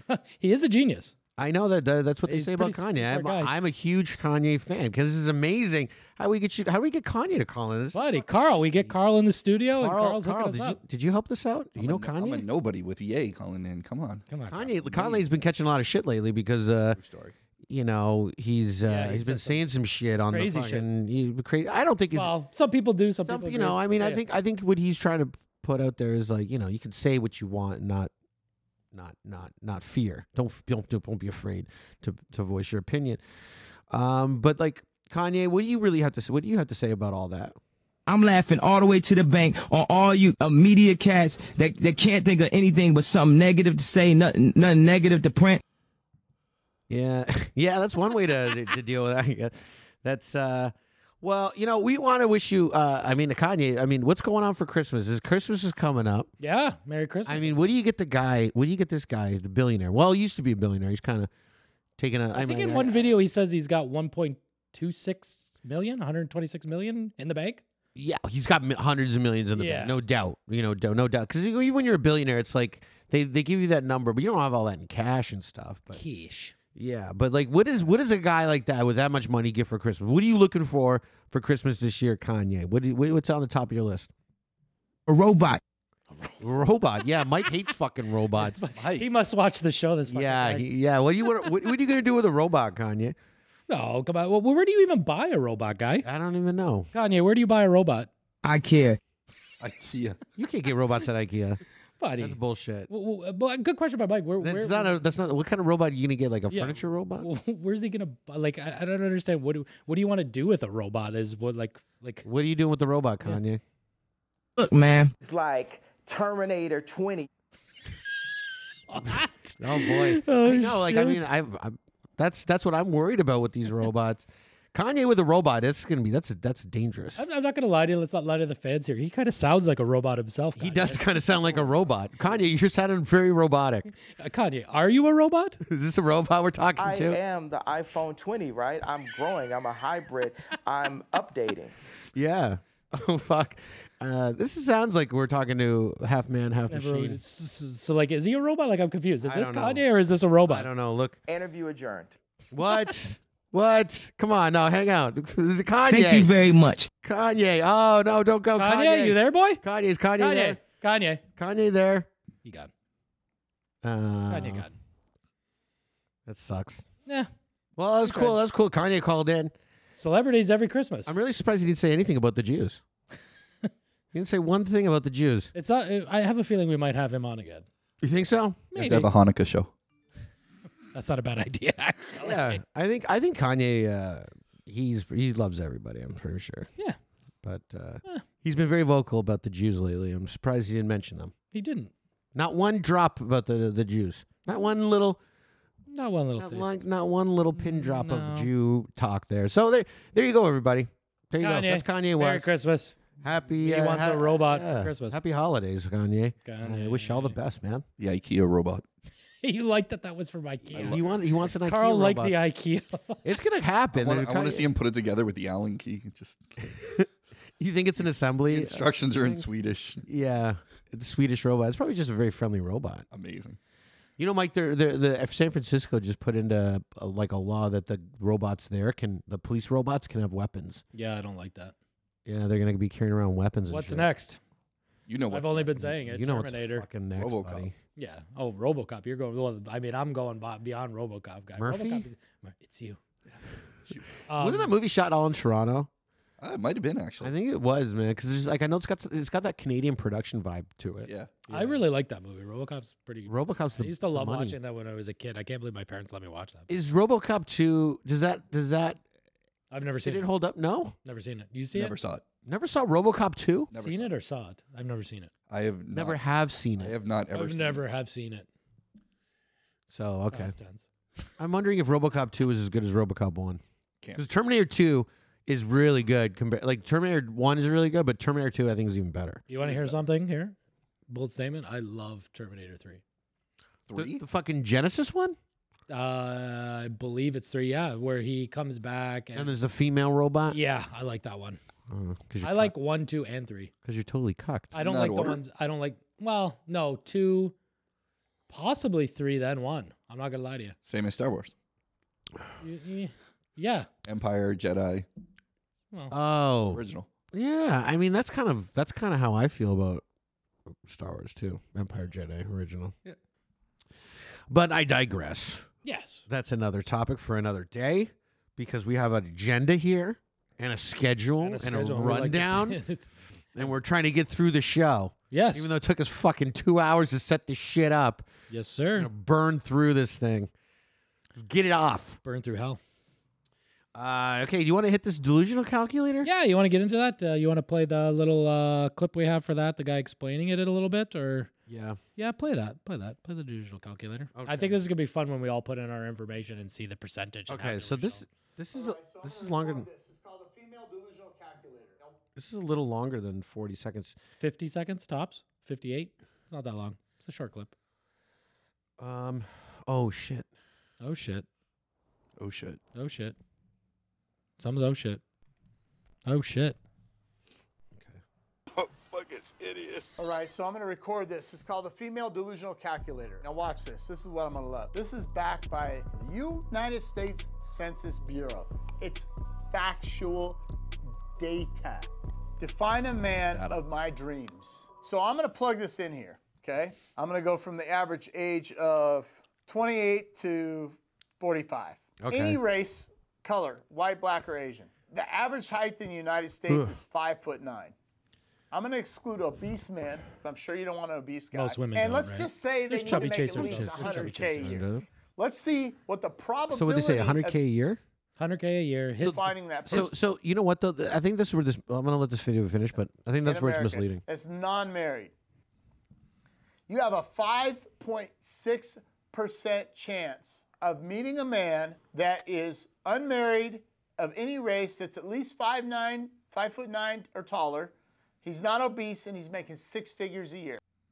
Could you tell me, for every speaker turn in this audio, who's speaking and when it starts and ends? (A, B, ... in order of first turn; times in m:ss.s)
0:00.1-0:01.1 A
0:01.4-0:08.0 B
0:02.3-0:03.5 A
0:07.9-0:10.8 A
0:09.8-0:12.4 B
0:11.8-0:15.2 C
0:14.3-0:14.7 A
0:14.5-0:17.0 B
0:16.9-0:17.3 C
0:17.7-0:22.3 B
0:18.8-0:19.6 A
0:20.3-0:20.9 A
0:22.1-0:24.2 A
0:23.2-0:28.1 B
0:28.9-0:33.2 B
0:33.9-0:37.6 B
0:38.1-0:45.6 D
0:46.9-0:56.3 B
0:56.4-0:57.6 A
0:57.2-1:01.3 B
1:02.0-1:03.1 B
1:02.3-1:07.6 A
1:07.9-1:16.0 B
1:09.5-1:10.0 A
1:15.9-1:16.5 A
1:16.7-1:24.1 B
1:25.1-1:25.6 D
1:26.1-1:26.4 A
1:26.4-1:28.6 B
1:28.4-1:30.7 A
1:28.8-1:29.1 C
1:30.1-1:33.2 B
1:33.7-1:36.0 A
1:36.0-1:36.9 B
1:36.9-1:38.1 A
1:38.4-1:39.0 D
1:39.6-1:40.2 C
1:40.4-1:41.6 B
1:42.0-1:45.0 A
1:42.2-1:42.9 B
1:44.4-1:47.3 B
1:46.5-1:52.2 A
1:52.2-1:53.6 B
1:54.6-1:55.1 D
1:55.2-1:57.3 E
1:58.9-2:01.2 A
1:59.6-2:07.2 B
2:07.2-2:11.6 A
2:10.6-2:13.9 B
2:14.1-2:15.6 A
2:15.6-2:17.2 B
2:16.8-2:21.7 E
2:22.1-2:27.2 B
2:26.7-2:30.7 A
2:29.2-2:29.8 B
2:30.4-2:31.2 B
2:31.3-2:32.2 E
2:32.5-2:36.3 B
2:35.9-2:36.9 D
2:37.0-2:40.6 B
2:38.6-2:39.6 A
2:40.2-2:41.2 A
2:41.4-2:42.1 B
2:42.4-2:42.7 A
2:43.8-2:44.6 B
2:44.3-2:44.7 A
2:46.2-2:46.8 B
2:47.8-2:49.5 B
2:48.0-2:48.4 A
2:50.0-2:51.1 A
2:51.0-2:52.8 B
2:54.1-2:55.5 B
2:55.5-2:57.6 A
2:58.0-2:58.7 B
2:58.7-2:59.1 A
2:58.7-2:59.7 C
3:00.9-3:02.6 A
3:02.2-3:06.7 B
3:07.4-3:11.3 B
3:11.5-3:11.9 A
3:12.3-3:15.2 B
3:15.9-3:16.8 A
3:16.4-3:22.5 B
3:17.5-3:18.5 A
3:21.4-3:23.0 A
3:23.2-3:27.8 B
3:23.6-3:25.2 A
3:26.4-3:27.4 A
3:28.0-3:28.8 C
3:29.4-3:31.0 A
3:30.7-3:32.4 B
3:30.7-3:31.2 C
3:31.6-3:33.2 A
3:33.2-3:34.7 B
3:33.9-3:36.5 C
3:36.6-3:37.1 B
3:37.6-3:39.5 B
3:38.5-3:40.0 C
3:40.0-3:43.0 B
3:43.1-3:43.6 C
3:44.2-3:50.8 B
3:50.9-3:51.7 A
3:52.2-3:54.1 B
3:53.7-3:54.4 A
3:55.1-3:55.8 C
3:55.3-3:56.9 A
3:55.8-3:57.7 B
3:57.2-3:57.7 C
3:58.0-4:03.0 A
4:01.6-4:02.1 B
4:04.2-4:04.8 A
4:04.4-4:05.9 B
4:06.4-4:07.3 C
4:07.2-4:11.8 B
4:11.0-4:11.4 C
4:11.5-4:16.7 A
4:13.3-4:14.6 B
4:16.7-4:19.0 B
4:19.7-4:20.3 A
4:20.0-4:20.9 B
4:21.0-4:21.9 A
4:21.7-4:22.2 C
4:22.4-4:23.7 B
4:23.7-4:24.1 C
4:23.7-4:25.3 A
4:25.5-4:26.2 C
4:25.9-4:26.9 B
4:26.8-4:27.8 C
4:27.3-4:28.5 A
4:29.9-4:30.5 B
4:30.3-4:30.9 A
4:31.4-4:33.6 B
4:34.2-4:39.4 B
4:39.5-4:40.6 A
4:39.6-4:39.9 C
4:41.1-4:43.0 A
4:43.9-4:44.2 C
4:43.9-4:45.4 B
4:45.9-4:49.5 A
4:49.3-4:50.6 B
4:50.5-4:51.6 A
4:51.9-4:52.7 B
4:52.4-4:53.7 A
4:53.8-4:54.7 B
4:54.7-4:57.5 A
4:54.8-4:55.4 C
4:58.5-5:00.8 A
5:00.8-5:01.5 C
5:02.6-5:03.9 A
5:04.0-5:05.0 C
5:06.1-5:10.0 B
5:06.7-5:07.1 C
5:10.7-5:12.9 B
5:14.5-5:15.7 B
5:15.8-5:16.2 A
5:16.3-5:22.8 B
5:21.4-5:23.1 A
5:23.5-5:28.3 B
5:25.3-5:25.7 A
5:28.5-5:29.1 A
5:29.0-5:30.5 B
5:31.3-5:32.2 B
5:32.2-5:32.8 A
5:33.9-5:36.3 B
5:36.2-5:41.5 A
5:41.7-5:42.0 B
5:42.2-5:48.2 A
5:44.3-5:44.8 B
5:47.5-5:49.9 B
5:48.7-5:52.2 F
5:52.4-5:54.2 B
5:54.4-5:57.7 A
5:59.0-6:00.5 B
6:01.0-6:01.4 A
6:02.4-6:02.8 C
6:02.9-6:03.3 A
6:04.6-6:05.2 A
6:06.2-6:06.8 A
6:07.9-6:08.2 B
6:10.2-6:20.6 F
6:21.4-6:37.9 F
6:23.5-6:23.8 C
6:32.2-6:32.6 B
6:36.7-6:37.0 B
6:38.7-6:47.6 F
6:41.5-6:44.8 A
6:43.0-6:45.0 B
6:46.7-6:48.0 B
6:48.4-6:50.0 A
6:49.2-6:54.2 B
6:49.2-6:50.1 F
6:53.4-6:55.3 F
6:56.9-7:10.8 F